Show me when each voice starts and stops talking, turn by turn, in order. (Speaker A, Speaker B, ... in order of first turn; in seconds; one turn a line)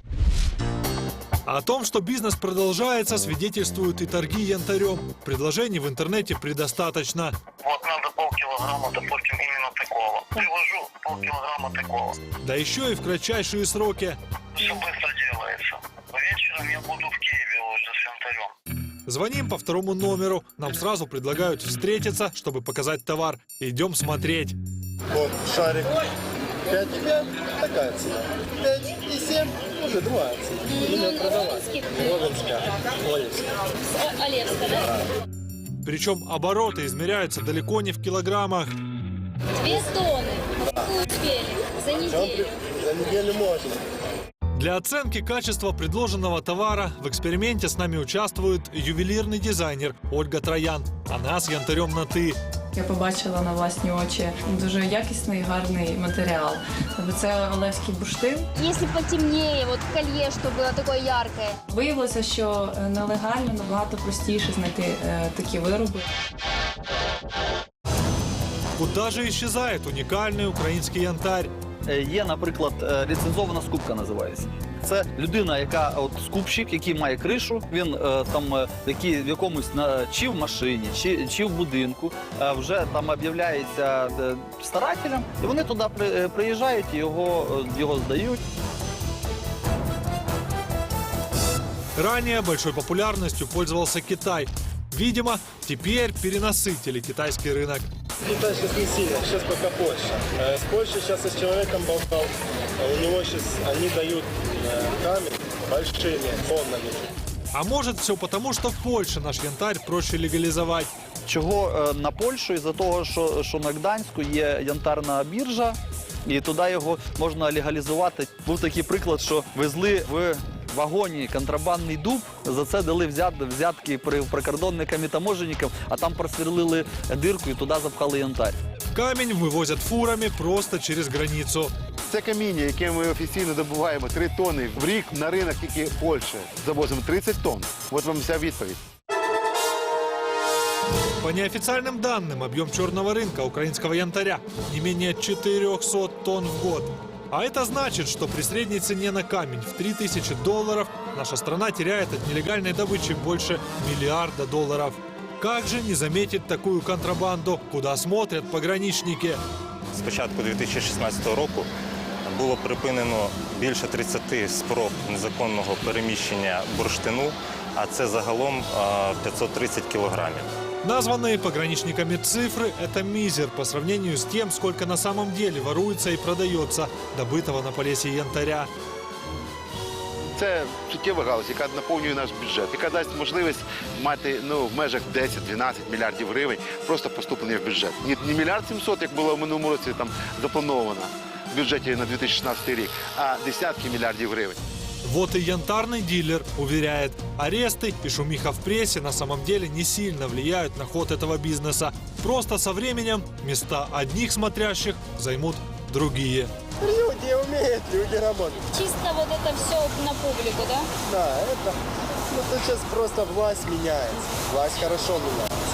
Speaker A: 1.4-7.3
Speaker B: 7.6-12.2
Speaker A: 12.4-14.2
Speaker B: 14.6-18.5
Speaker A: 19.1-24.6
Speaker C: 25.1-26.0
Speaker C: 26.7-33.5
Speaker D: 30.7-31.9
Speaker D: 34.1-34.8
Speaker A: 35.8-38.7
Speaker D: 39.6-40.4
Speaker D: 41.0-42.5
Speaker C: 42.0-43.8
Speaker A: 44.5-52.4
Speaker E: 52.7-58.5
Speaker D: 58.6-61.6
Speaker E: 61.7-66.0
Speaker A: 68.8-71.5
Speaker F: 71.9-88.4
Speaker A: 92.0-97.9
Speaker C: 98.2-107.1
Speaker A: 107.5-110.9
Speaker F: 111.2-128.6
Speaker A: 128.9-131.7
Speaker G: 132.1-138.8
Speaker A: 141.2-159.4
Speaker H: 159.9-161.7
Speaker H: 162.2-170.5
Speaker A: 170.8-178.7
Speaker G: 180.3-194.6
Speaker A: 195.0-206.5
Speaker C: 206.8-208.6
Speaker D: 208.7-210.9
Speaker C: 211.1-211.8
Speaker C: 212.3-215.5